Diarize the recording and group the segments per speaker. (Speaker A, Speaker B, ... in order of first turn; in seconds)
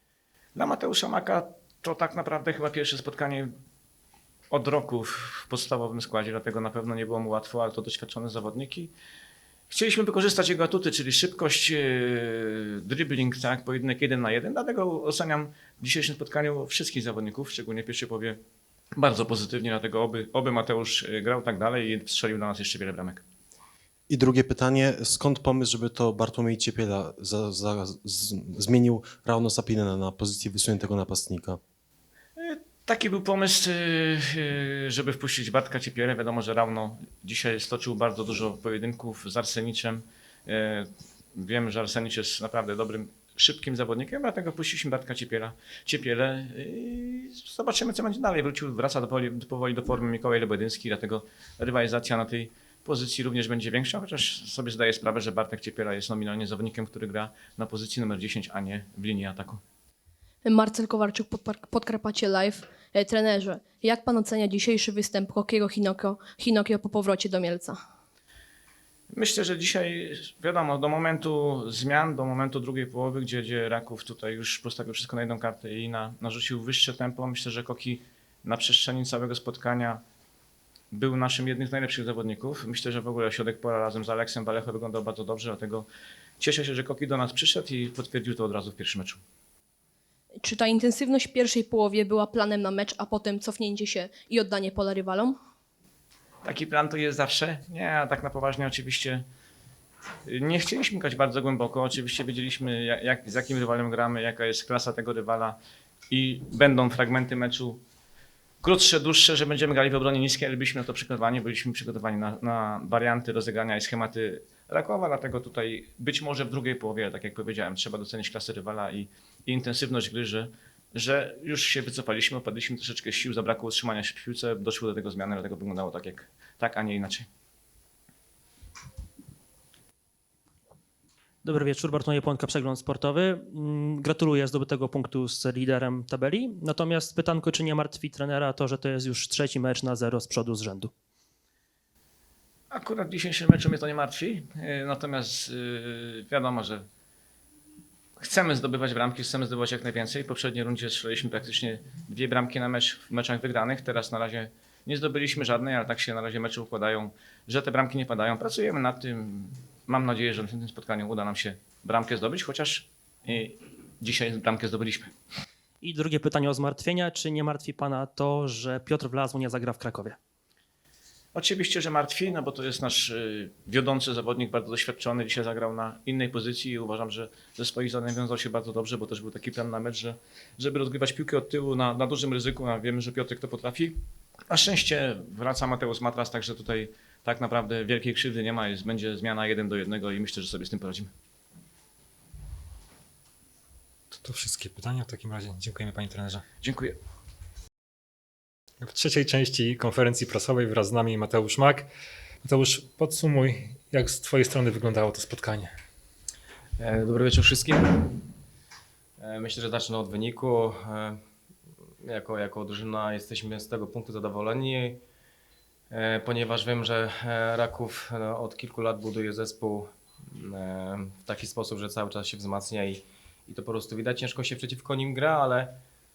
Speaker A: 0.6-3.5, 4.5-8.9, 9.7-18.4, 19.0-23.2, 32.4-59.6, 69.1-80.0, 80.9-85.8, 86.4-89.2, 96.5-99.2, 100.3-105.6, 106.1-107.8, 108.6-127.3, 142.7-146.8, 148.2-165.1, 171.3-184.0, 184.5-191.1, 196.6-196.9
Speaker B: 24.1-31.6
Speaker C: 60.4-67.8, 90.4-95.4
Speaker D: 131.4-140.9, 165.8-170.2
Speaker E: 194.1-196.4, 198.8-201.9, 202.4-205.7
Speaker F: 206.8-208.2, 209.2-211.2, 212.0-215.0, 215.9-225.8